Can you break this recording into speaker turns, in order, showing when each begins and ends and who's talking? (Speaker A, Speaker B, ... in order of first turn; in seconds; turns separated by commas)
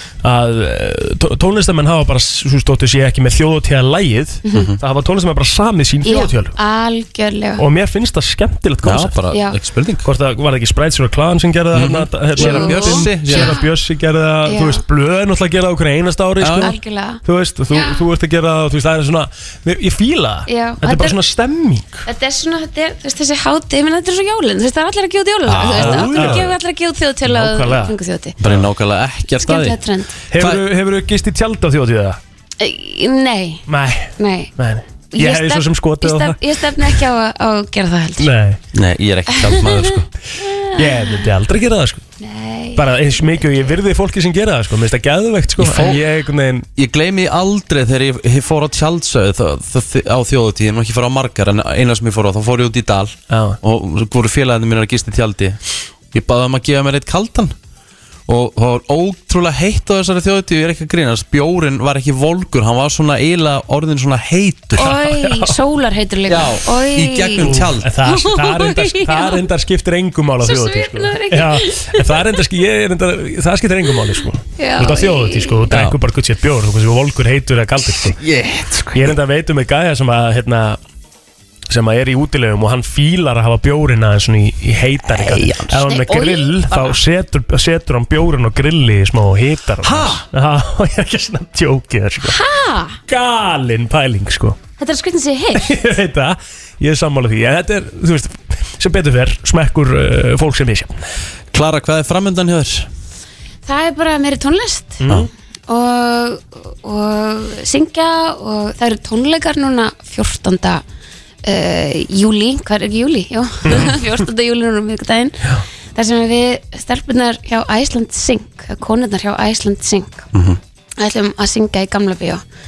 Speaker A: 0.2-6.5, Speaker B: 4.4-4.7, Speaker C: 4.5-4.8, Speaker B: 6.0-7.6, Speaker A: 7.6-9.2, Speaker C: 8.8-10.1, Speaker B: 9.3-9.6, Speaker A: 10.0-22.1, Speaker C: 11.7-13.6, Speaker B: 12.3-13.7, Speaker B: 14.4-14.8, Speaker C: 16.4-16.7, Speaker B: 16.6-18.0, Speaker B: 20.5-21.2, Speaker B: 22.1-28.4, Speaker C: 25.4-26.5, Speaker A: 25.7-26.5, Speaker A: 27.2-27.9, Speaker C: 28.4-29.8, Speaker B: 29.4-30.1, Speaker A: 30.3-32.2, Speaker C: 30.4-30.6, Speaker B: 32.6-33.6, Speaker A: 33.7-37.0, Speaker B: 34.2-34.5, Speaker B: 35.1-38.3, Speaker A: 38.2-38.6, Speaker C: 38.7-40.1, Speaker B: 39.3-39.8, Speaker B: 40.4-41.2, Speaker A: 40.7-42.0, Speaker B: 42.2-43.7, Speaker A: 42.8-46.7, Speaker C: 45.6-46.0, Speaker C: 46.8-55.6, Speaker A: 53.3-53.6, Speaker C: 56.1-57.5, Speaker C: 58.3-64.9, Speaker B: 64.8-69.4, Speaker A: 64.8-65.5, Speaker C: 66.3-67.9, Speaker A: 67.4-78.2, Speaker B: 70.4-72.4, Speaker B: 74.6-75.7, Speaker C: 75.7-76.0, Speaker C: 78.0-79.1, Speaker A: 78.9-80.8, Speaker A: 81.7-92.4, Speaker C: 85.1-85.8, Speaker B: 85.8-87.0, Speaker C: 89.8-90.2, Speaker B: 92.2-93.0, Speaker A: 93.1-94.6, Speaker B: 94.8-95.8, Speaker A: 95.5-101.0, Speaker C: 101.5-102.9, Speaker B: 103.7-110.8, Speaker A: 105.0-105.3, Speaker B: 111.4-120.3, Speaker A: 113.7-113.9, Speaker C: 120.3-120.6, Speaker B: 121.0-122.4